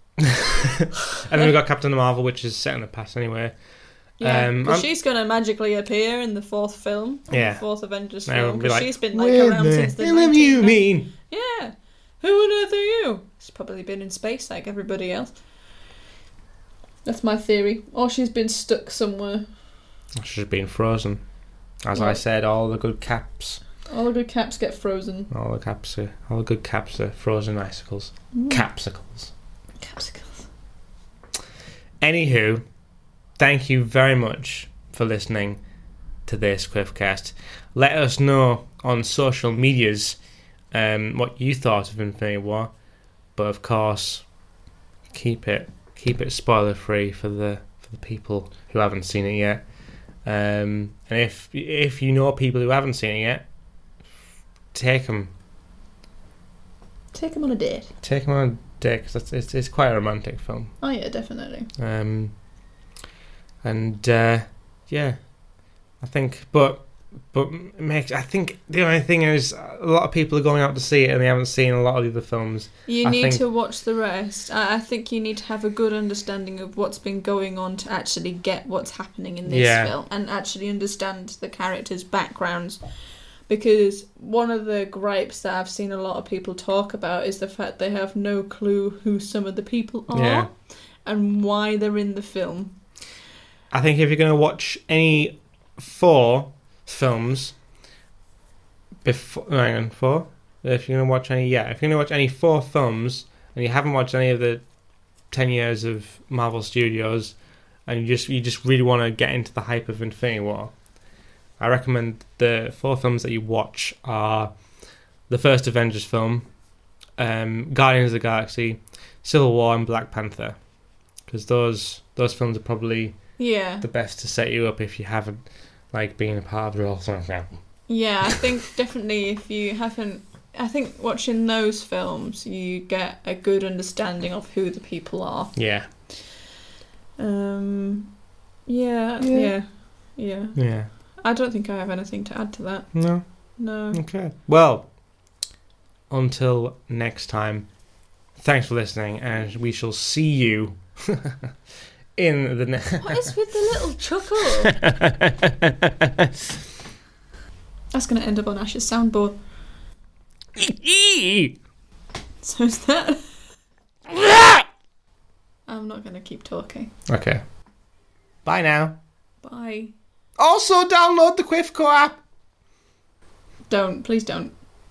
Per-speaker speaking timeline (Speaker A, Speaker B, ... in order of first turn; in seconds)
Speaker A: 0.2-3.5, 4.2-4.9, 7.3-7.6, 8.2-11.1, 20.1-21.2, 21.8-23.6, 25.3-29.3, 32.0-32.6, 33.4-35.6, 36.3-40.2, 40.7-42.7, 43.4-44.3, 45.1-49.6, 50.2-53.4, 54.7-55.3, 58.0-60.7, 61.8-62.3, 63.6-65.2, 66.0-73.4, 79.5-79.9, 90.1-90.5, 93.7-97.6, 99.0-104.6, 105.3-107.3, 107.9-110.7, 111.6-114.5, 115.3-116.5, 117.2-120.6, 121.3-123.2, 123.8-125.4, 125.9-127.6, 135.6-135.9, 139.2-139.5, 140.6-140.9, 142.9-144.9, 146.1-147.7, 148.3-151.5, 152.2-153.3, 154.6-156.3, 160.6-161.6, 164.1-164.6, 167.1-167.4, 168.4-169.0, 170.4-172.2
Speaker B: 4.2-15.3, 17.1-19.5, 21.9-22.2, 23.9-25.3, 28.3-28.6, 29.8-30.5, 57.1-57.9, 60.8-61.7, 72.9-82.8, 83.5-92.8, 123.4-123.8, 127.9-135.6, 136.1-136.3, 137.2-138.1, 138.7-144.0, 153.0-154.8, 157.9-159.4, 162.4-163.2, 165.7-166.9, 169.4-169.9, 173.7-174.5